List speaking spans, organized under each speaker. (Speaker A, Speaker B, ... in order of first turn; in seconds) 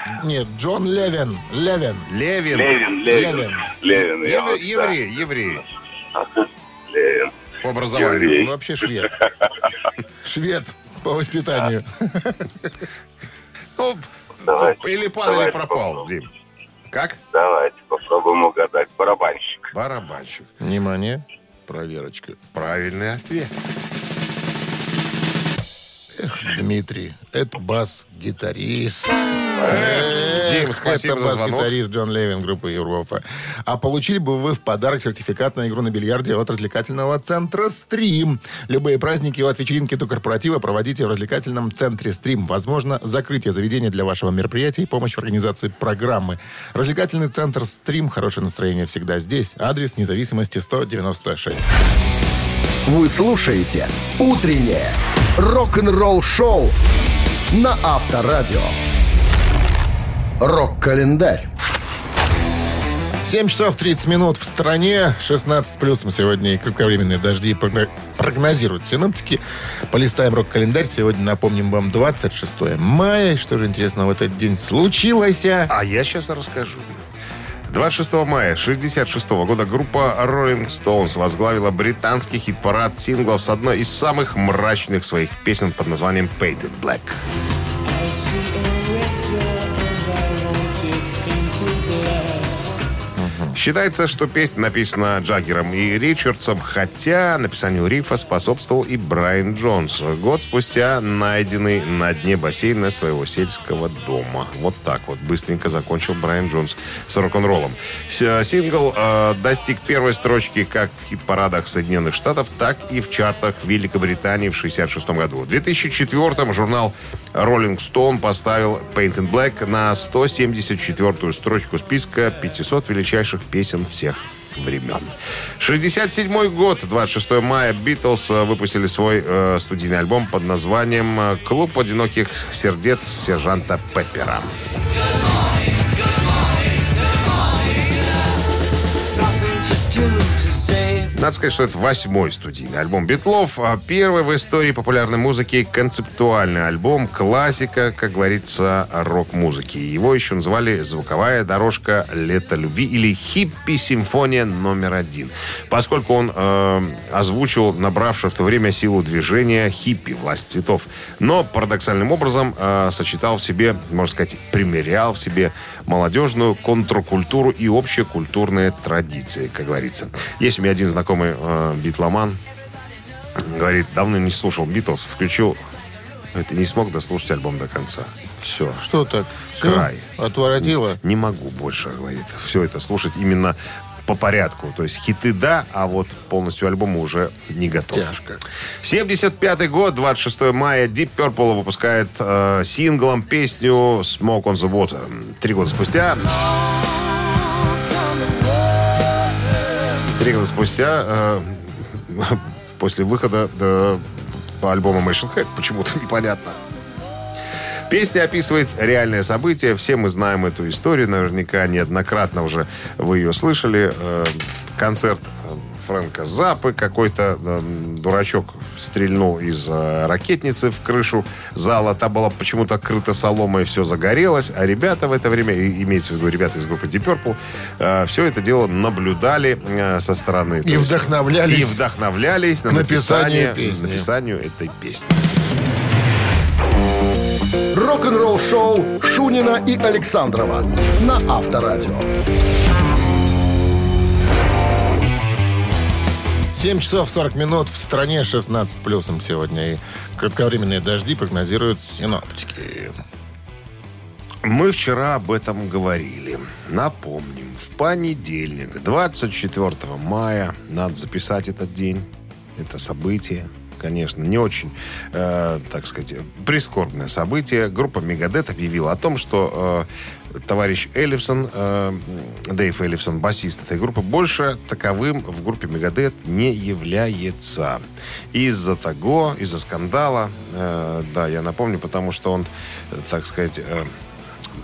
Speaker A: 0.1-2.1, 3.1-3.6, 8.3-9.1, 10.2-12.5, 20.6-22.4, 26.1-51.7, 63.2-75.7, 93.2-93.6, 178.8-181.0, 187.9-188.3, 230.6-231.8, 232.7-234.1, 246.5-252.9
Speaker B: 2.1-2.8, 4.0-5.6, 7.6-8.5, 13.8-16.3, 16.9-17.2, 19.7-20.5, 22.5-23.7, 29.6-31.7, 75.7-77.0, 77.7-87.2, 93.5-134.6, 141.1-172.4, 173.3-175.6, 176.3-178.9, 179.5-180.1, 181.0-196.3, 200.1-206.6, 207.9-235.3, 254.4-269.9, 270.4-277.8, 278.3-283.9
Speaker C: 2.5-5.0, 6.1-7.3, 7.9-8.5, 14.5-16.1, 17.3-19.7
Speaker D: 52.9-56.8, 57.5-58.8, 60.4-61.5, 237.7-242.1
Speaker E: 87.9-92.7, 139.2-141.0